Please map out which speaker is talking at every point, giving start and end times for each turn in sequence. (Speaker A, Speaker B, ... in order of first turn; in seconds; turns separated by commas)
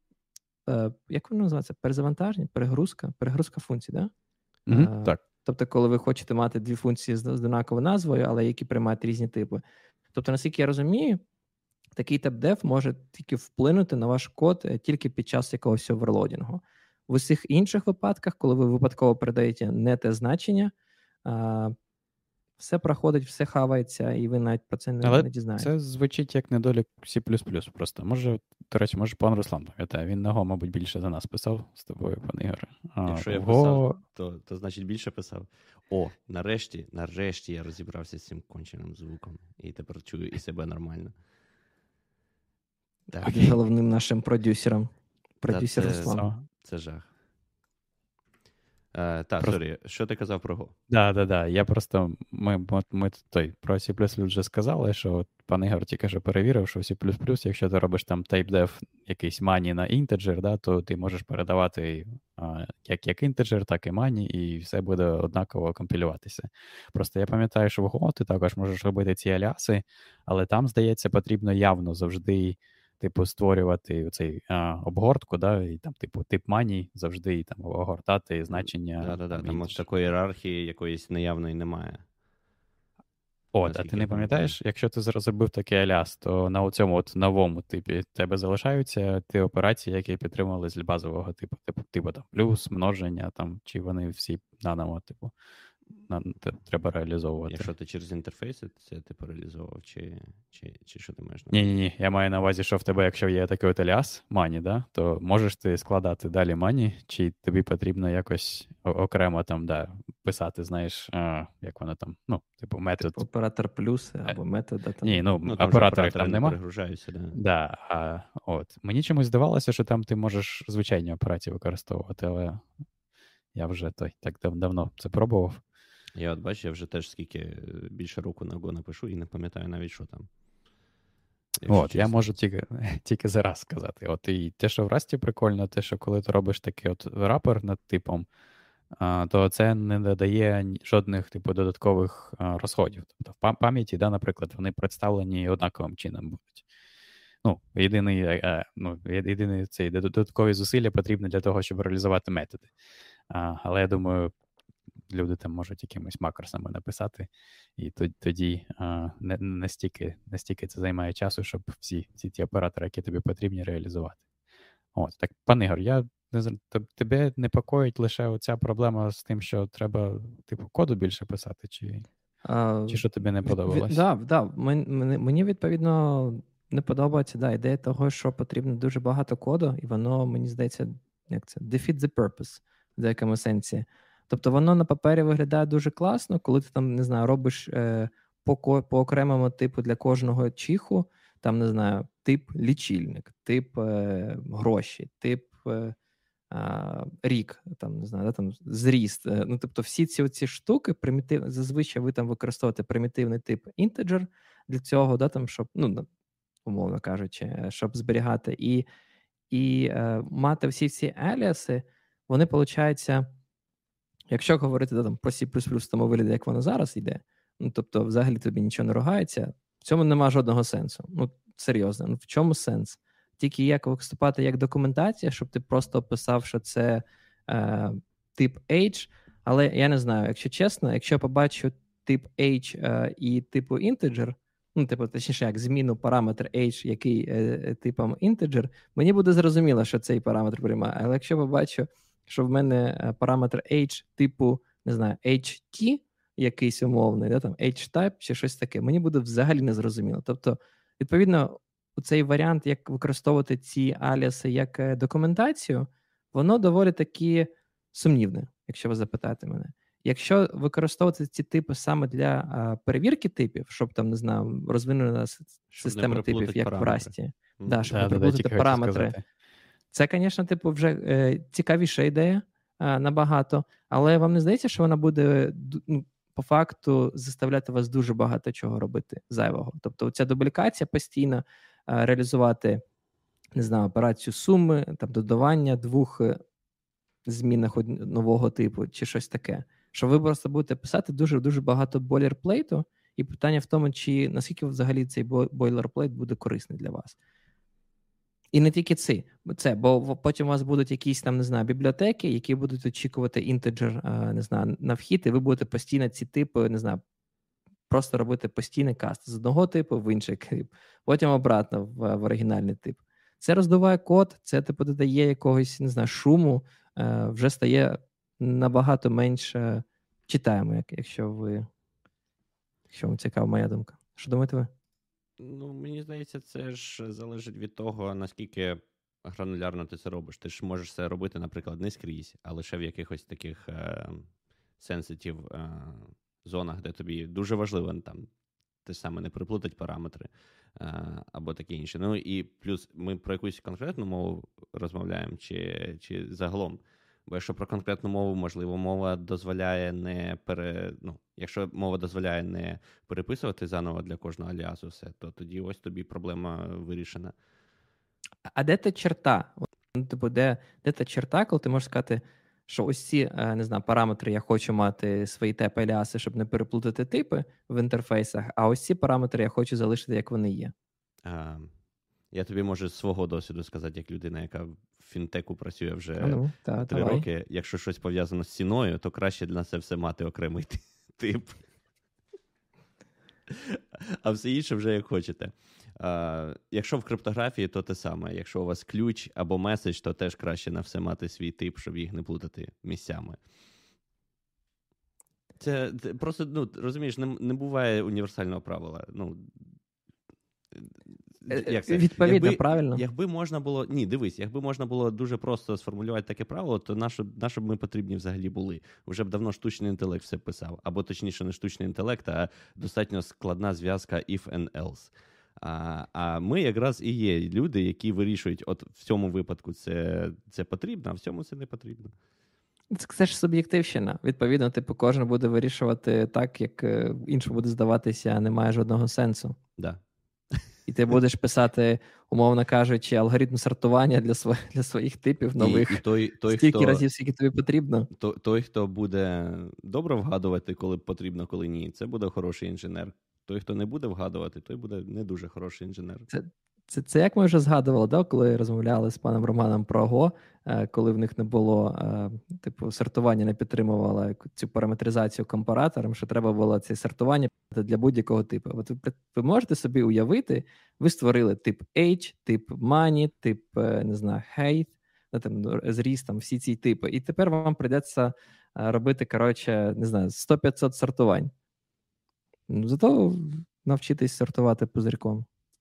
Speaker A: 0.7-4.1, Speaker B: 4.7-5.2, Speaker A: 4.7-9.6, Speaker A: 10.1-11.2, Speaker A: 12.0-20.7, Speaker A: 21.2-21.8, Speaker A: 22.6-25.7, Speaker B: 25.0-34.0, Speaker C: 33.0-41.1, Speaker A: 43.1-46.3, Speaker B: 43.3-43.5, Speaker C: 45.5-47.1, Speaker B: 45.9-46.4, Speaker C: 48.9-50.8, Speaker B: 50.9-79.8, Speaker C: 78.5-82.0, Speaker B: 83.5-95.3, Speaker C: 83.7-84.5, Speaker B: 96.1-97.7, Speaker C: 97.5-101.7, Speaker B: 101.5-113.2, Speaker A: 113.0-115.2, Speaker B: 115.0-116.6, Speaker C: 115.5-117.4, Speaker B: 117.3-122.7, Speaker B: 123.5-125.6, Speaker C: 126.2-130.3, Speaker C: 131.6-132.2, Speaker B: 131.7-138.3, Speaker B: 139.0-146.6, Speaker B: 147.4-152.7, Speaker B: 153.3-154.3, Speaker B: 155.1-164.2, Speaker B: 164.9-172.1, Speaker A: 172.4-195.9, Speaker B: 172.9-174.0, Speaker A: 196.5-206.1, Speaker A: 206.7-208.8, Speaker A: 209.5-213.3, Speaker A: 214.3-269.1, Speaker C: 265.7-268.0, Speaker B: 267.9-269.2, Speaker A: 269.9-282.8, Speaker A: 283.6-286.4, Speaker A: 287.3-297.2, Speaker A: 298.5-307.0, Speaker A: 307.9-321.7, Speaker A: 322.9-324.7, Speaker C: 325.4-334.3, Speaker C: 334.8-338.3, Speaker C: 338.9-357.3, Speaker A: 358.5-370.7, Speaker C: 371.2-371.7, Speaker C: 372.3-381.6, Speaker A: 376.2-377.2, Speaker C: 383.5-393.4, Speaker C: 395.6-399.5, Speaker C: 401.4-422.1, Speaker A: 401.5-403.0, Speaker A: 422.9-429.6, Speaker A: 430.9-438.1, Speaker C: 435.6-437.1, Speaker C: 438.1-446.3, Speaker A: 446.3-471.5, Speaker A: 472.7-475.5